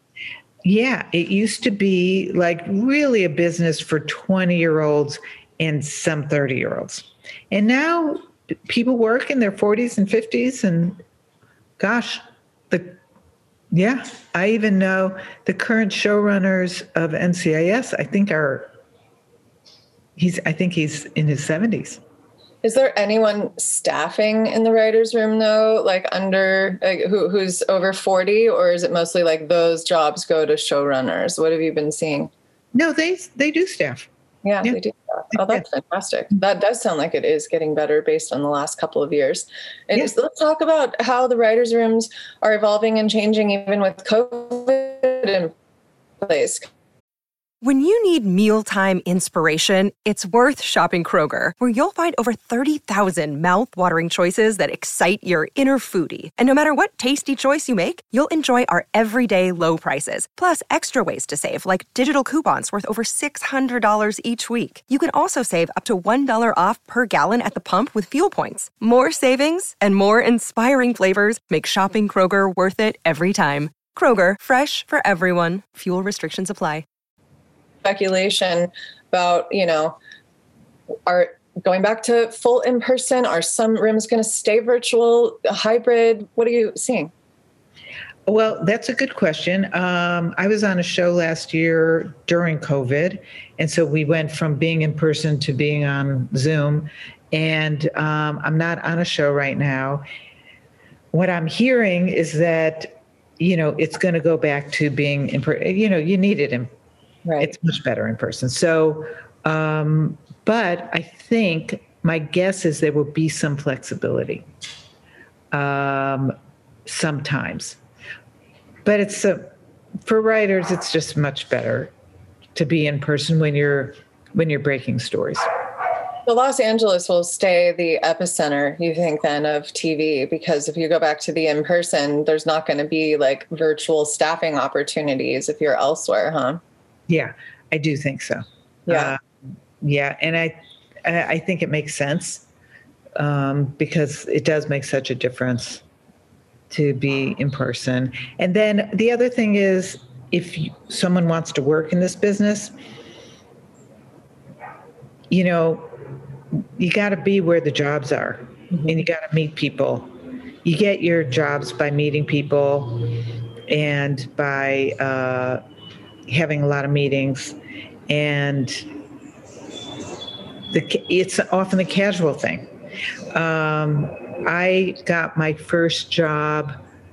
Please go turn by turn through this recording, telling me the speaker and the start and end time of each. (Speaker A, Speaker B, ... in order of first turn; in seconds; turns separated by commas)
Speaker A: 0.6-11.0, Speaker A: 11.8-13.0, Speaker A: 13.7-18.7, Speaker A: 20.1-22.0, Speaker B: 22.6-32.3, Speaker A: 32.7-34.1, Speaker B: 34.4-45.5, Speaker A: 35.3-35.6, Speaker B: 46.2-46.7, Speaker C: 47.6-76.8, Speaker B: 77.8-80.0, Speaker B: 81.1-87.1, Speaker A: 88.3-100.0, Speaker A: 101.1-106.7, Speaker B: 107.2-107.5, Speaker A: 107.4-114.5, Speaker A: 115.5-116.3, Speaker A: 116.8-117.8, Speaker A: 118.8-119.5, Speaker A: 120.0-121.9, Speaker A: 122.5-125.4, Speaker B: 126.2-136.6, Speaker A: 137.1-139.2, Speaker B: 138.9-139.1, Speaker A: 139.8-142.4, Speaker A: 143.2-145.8, Speaker A: 146.7-152.7, Speaker A: 155.3-156.0, Speaker A: 156.5-160.1, Speaker B: 158.7-159.0, Speaker A: 160.6-165.6, Speaker A: 166.3-168.9, Speaker A: 170.7-172.7, Speaker A: 173.3-176.8